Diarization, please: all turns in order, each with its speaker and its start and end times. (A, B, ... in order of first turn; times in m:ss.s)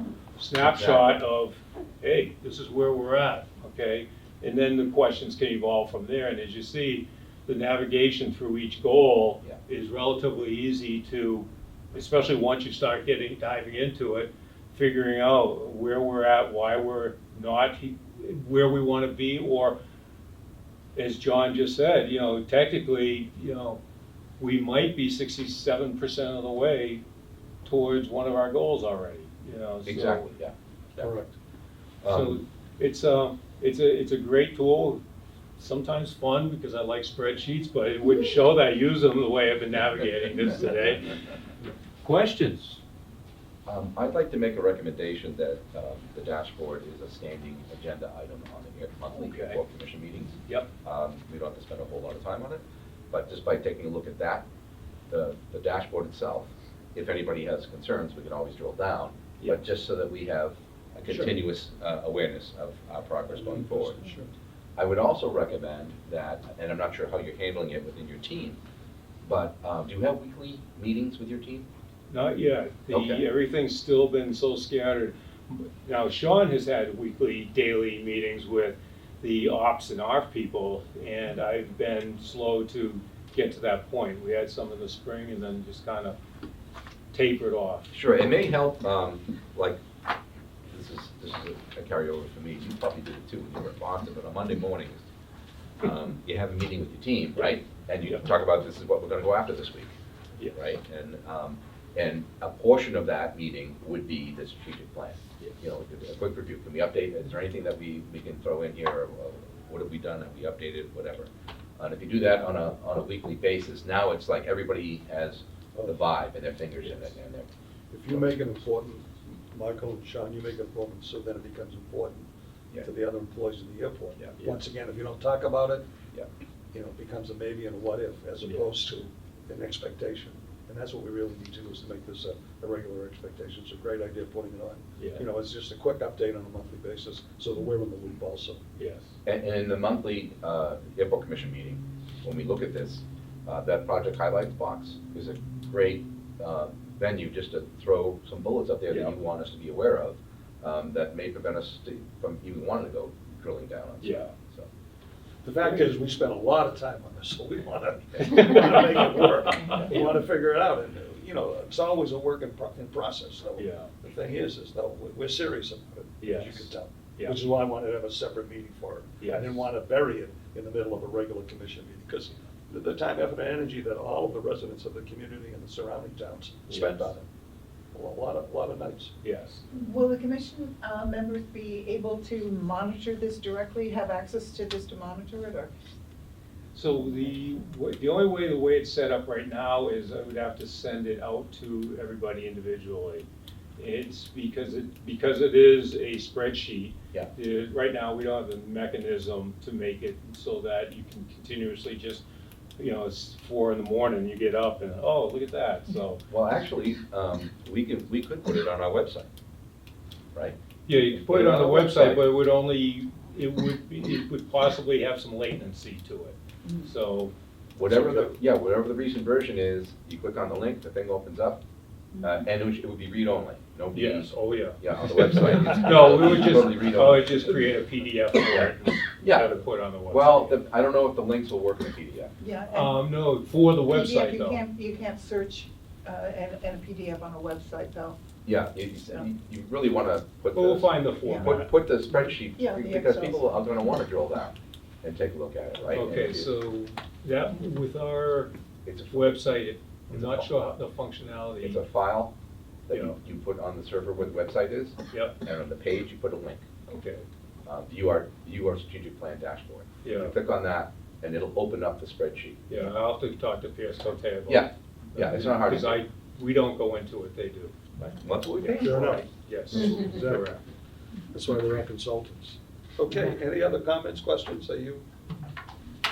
0:00.4-0:19.8 A
0:00.6-0:01.1 B
0:20.9-0:23.8 A
0:24.4-0:27.0 A
0:27.6-0:30.2 A
0:29.8-0:31.1 B
0:31.0-0:31.3 C
0:32.0-0:32.4 B
0:32.0-0:35.0 A
0:35.6-0:42.8 A
0:43.6-0:54.4 B
0:49.1-0:49.6 A
0:55.1-1:04.0 B
1:01.1-1:01.3 C
1:03.3-1:04.3 C
1:04.8-1:08.6 B
1:09.2-1:11.6 B
1:12.1-1:26.2 A
1:12.9-1:13.2 B
1:27.1-1:27.9 A
1:27.9-1:29.8 B
1:30.7-1:35.1 B
1:35.8-1:39.9 B
1:37.4-1:38.2 A
1:40.5-1:57.5 B
1:57.9-2:02.3 C
1:58.1-1:58.4 B
2:02.8-2:05.8 C
2:04.4-2:04.6 A
2:06.7-2:18.6 C
2:08.4-2:08.7 A
2:15.0-2:15.2 A
2:18.8-2:19.2 A
2:19.2-2:34.7 B
2:28.9-2:29.2 A
2:34.0-2:34.3 A
2:35.4-2:57.2 C
2:38.1-2:38.5 B
2:38.2-2:39.1 A
2:39.7-2:40.1 A
2:43.6-2:43.9 A
2:46.2-2:47.4 A
2:49.2-2:49.6 A
2:56.7-2:57.1 A
2:57.9-2:59.1 C
2:59.2-2:59.6 A
2:59.7-3:05.7 D
3:06.7-3:22.2 A
3:22.8-3:26.2 A
3:26.3-3:29.3 B
3:30.3-3:32.2 B
3:30.8-3:37.3 A
3:37.7-3:41.6 B
3:42.2-3:47.6 B
3:43.9-3:50.5 A
3:48.5-3:49.6 B
3:50.1-3:52.3 B
3:52.4-3:53.0 D
3:52.7-3:54.6 A
3:53.8-3:58.2 D
3:58.4-4:06.5 B
4:00.5-4:01.7 A
4:02.5-4:03.5 D
4:05.9-4:08.5 A
4:08.8-4:09.4 B
4:09.1-4:11.8 A
4:10.1-4:10.5 B
4:11.6-4:12.3 B
4:12.9-4:16.6 B
4:16.8-4:17.2 A
4:17.6-4:22.9 B
4:20.0-4:20.3 A
4:22.7-4:30.6 A
4:24.5-4:26.0 B
4:28.2-4:29.3 B
4:28.8-4:30.5 C
4:31.3-4:35.0 C